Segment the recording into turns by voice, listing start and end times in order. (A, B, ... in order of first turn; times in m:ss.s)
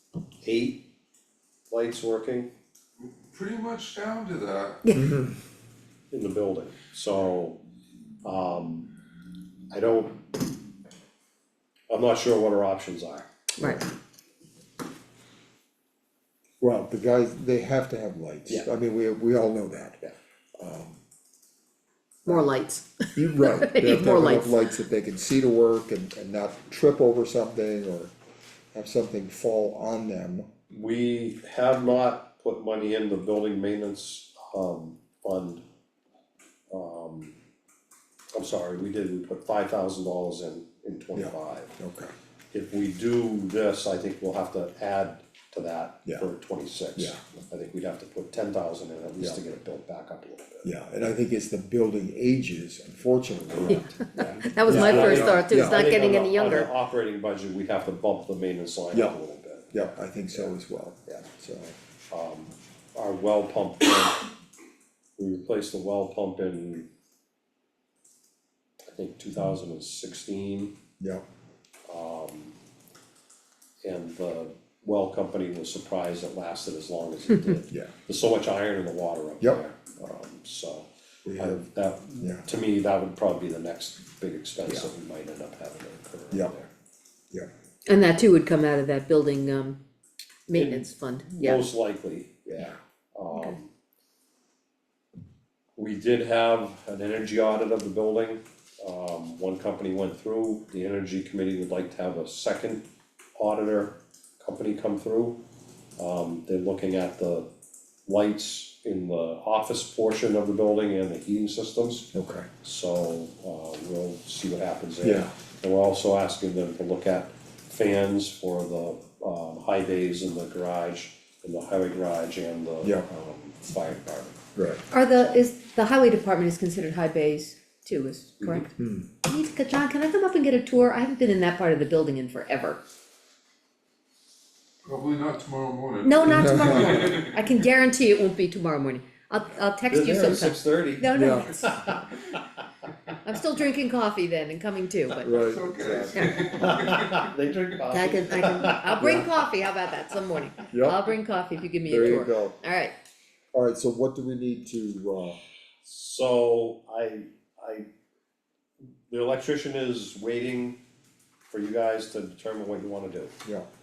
0:00.4-0:00.8 A
0:01.7-0:02.5 A
0:03.1-0:04.8 B
0:04.8-0:05.1 C
0:04.9-0:05.4 D
0:06.1-0:07.6 A
0:08.2-0:08.9 A
0:09.7-0:10.2 A
0:11.9-0:13.7 A
0:16.6-0:20.0 D
0:20.6-0:21.0 D
0:22.2-0:24.6 C
0:23.1-0:28.1 D
0:28.7-0:30.5 D
0:30.7-0:35.6 A
0:36.7-0:37.3 A
0:38.3-0:41.8 A
0:41.1-0:42.1 D
0:42.5-0:50.7 A
0:47.0-0:47.2 D
0:50.6-0:55.8 D
0:53.6-1:00.5 A
0:53.7-0:56.7 C
0:59.7-1:01.8 D
1:02.1-1:04.3 A
1:05.2-1:06.9 A
1:08.9-1:10.8 A
1:11.9-1:12.6 A
1:13.8-1:26.7 A
1:21.2-1:21.6 D
1:22.2-1:22.4 D
1:27.8-1:29.8 C
1:30.5-1:31.6 C
1:30.5-1:33.7 A
1:32.5-1:32.8 D
1:35.8-1:42.8 A
1:43.4-1:45.4 A
1:46.0-1:47.5 A
1:48.0-1:52.1 A
1:52.1-1:52.5 D
1:52.6-2:04.4 A
1:55.0-1:55.3 D
2:04.6-2:04.8 D
2:04.9-2:12.8 C
2:08.8-2:09.1 D
2:14.8-2:17.3 B
2:16.0-2:21.9 C
2:16.2-2:17.1 D
2:19.9-2:23.2 A
2:21.1-2:22.0 D
2:23.2-2:25.6 C
2:25.2-2:26.8 D
2:25.3-2:27.3 B
2:26.1-2:26.5 C
2:26.6-2:29.3 A
2:27.9-2:32.9 C
2:29.0-2:29.3 D
2:30.7-2:31.0 D
2:31.8-2:32.5 D
2:33.5-2:35.4 D
2:35.8-2:37.8 A
2:39.1-2:40.8 A
2:41.5-2:43.3 A